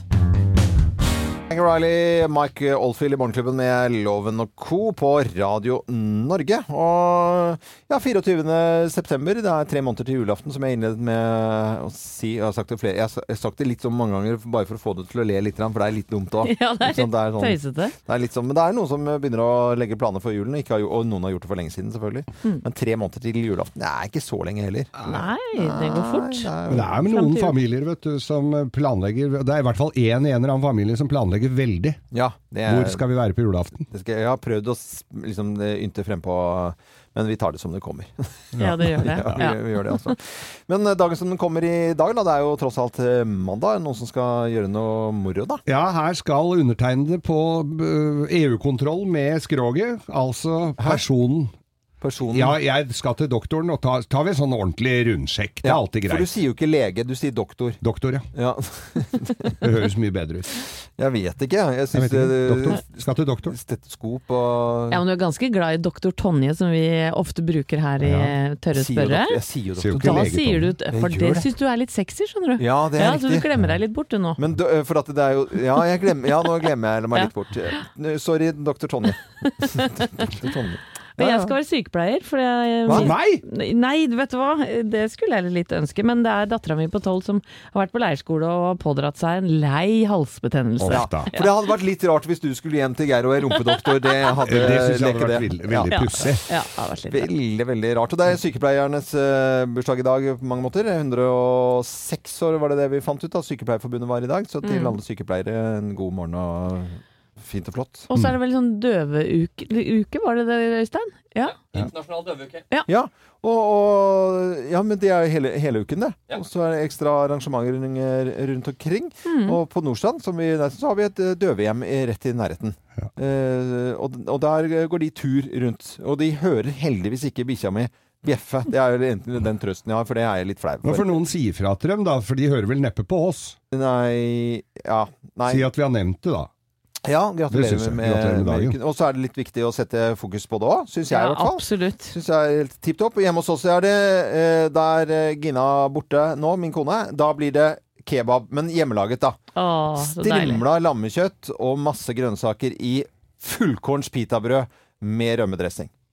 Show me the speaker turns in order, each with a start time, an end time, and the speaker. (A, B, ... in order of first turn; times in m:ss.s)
0:01.5-0:27.0 A
0:16.4-0:17.9 B
0:25.0-0:27.5 B
0:26.7-0:32.0 C
0:32.1-0:33.0 A
0:32.6-0:33.8 C
0:33.9-0:38.4 A
0:38.5-0:39.4 C
0:38.6-0:40.1 B
0:39.0-0:45.6 A
0:45.6-0:51.5 C
0:52.0-0:52.6 A
0:52.3-0:56.3 C
0:55.6-0:57.8 A
0:57.8-0:58.3 C
0:58.3-0:59.6 A
0:59.6-1:00.6 C
1:01.0-1:05.0 A
1:01.9-1:03.5 C
1:04.9-1:14.4 B
1:08.0-1:08.3 C
1:08.7-1:10.3 A
1:09.8-1:10.8 C
1:10.9-1:11.5 A
1:12.6-1:13.4 A
1:14.4-1:21.5 A
1:17.1-1:17.8 B
1:19.4-1:20.3 B
1:21.2-1:31.6 B
1:22.8-1:23.1 A
1:22.9-1:23.4 C
1:30.8-1:31.3 C
1:30.9-1:36.4 A
1:34.4-1:36.4 C
1:35.9-1:37.3 B
1:37.1-1:48.1 A
1:44.6-1:45.0 B
1:48.1-1:51.7 B
1:52.8-2:11.1 A
1:59.2-1:59.6 B
2:10.8-2:13.6 C
2:13.7-2:15.7 A
2:15.4-2:16.5 C
2:17.0-2:29.4 A
2:17.5-2:18.8 C
2:21.1-2:22.1 B
2:29.5-2:30.6 B
2:30.0-2:35.9 A